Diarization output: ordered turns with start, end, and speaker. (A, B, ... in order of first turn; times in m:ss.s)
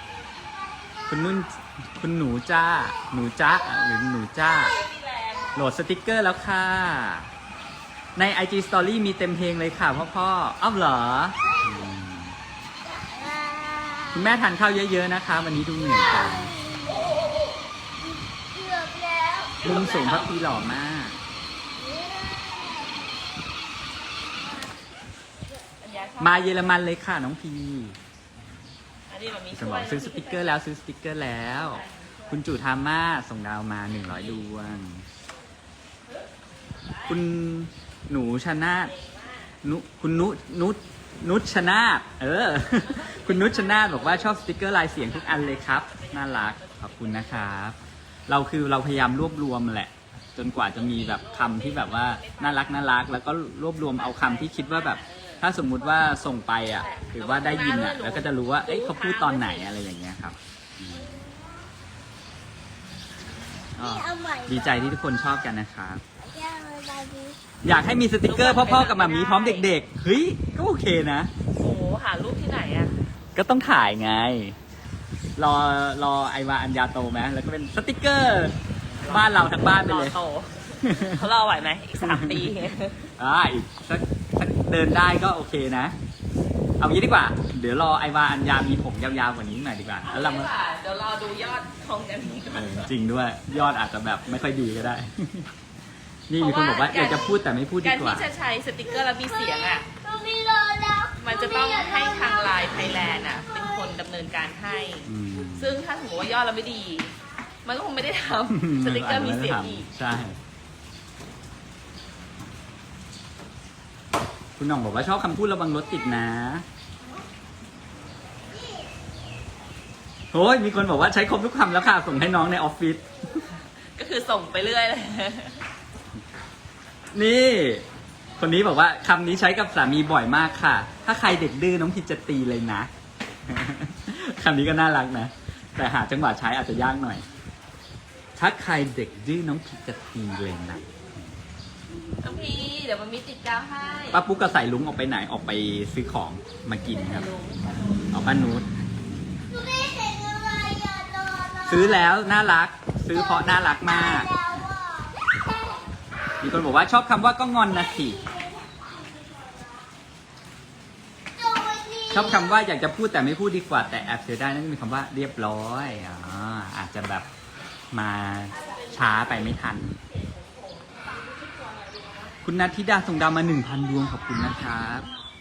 0:01.1-0:04.8 A
0:04.5-0:05.5 B
0:05.5-0:07.3 A
0:08.2-0:12.4 A
0:13.1-0:14.2 C
0:14.1-0:16.6 A
0:16.6-0:17.0 C
0:18.5-0:19.5 C
0:19.5-0:20.4 B
0:19.6-0:21.2 A
0:22.1-0:22.8 C
0:25.8-0:26.7 B
0:26.2-0:28.0 A
0:29.1-0:30.6 B
0:29.5-0:35.0 A
0:31.5-0:32.4 B
0:34.0-0:34.5 B
0:37.1-0:38.9 A
0:39.0-0:39.4 B
0:39.6-1:01.2 A
0:42.8-0:47.6 B
0:50.7-0:52.9 B
0:53.9-0:56.0 B
0:56.7-0:59.7 B
1:03.8-1:06.0 A
1:03.8-1:04.8 C
1:06.3-1:07.4 C
1:07.6-1:11.3 A
1:08.2-1:09.7 B
1:11.6-1:13.0 B
1:13.4-1:14.6 A
1:15.4-1:20.2 A
1:19.0-1:23.1 B
1:20.8-1:21.2 A
1:22.0-1:22.6 A
1:23.2-1:25.9 A
1:26.8-1:30.5 A
1:30.0-1:32.9 B
1:32.5-1:35.5 A
1:36.3-1:38.3 A
1:36.4-1:39.9 B
1:40.2-1:41.2 C
1:41.2-1:49.9 B
1:45.0-1:45.8 A
1:48.5-1:50.4 A
1:54.6-1:56.6 A
2:00.3-2:03.0 A
2:03.8-2:05.6 B
2:07.1-2:07.8 A
2:08.4-2:12.9 A
2:13.5-2:17.2 A
2:18.4-2:20.9 A
2:22.2-2:24.2 B
2:24.1-2:27.3 A
2:26.9-2:28.1 B
2:28.1-2:28.7 A
2:29.5-2:31.8 C
2:31.6-2:34.3 A
2:33.6-2:35.2 C
2:36.4-2:38.2 A
2:38.2-2:39.6 C
2:41.4-2:42.2 C
2:42.1-2:47.3 A
2:47.9-2:50.0 A
2:48.6-2:52.3 B
2:52.4-2:55.1 A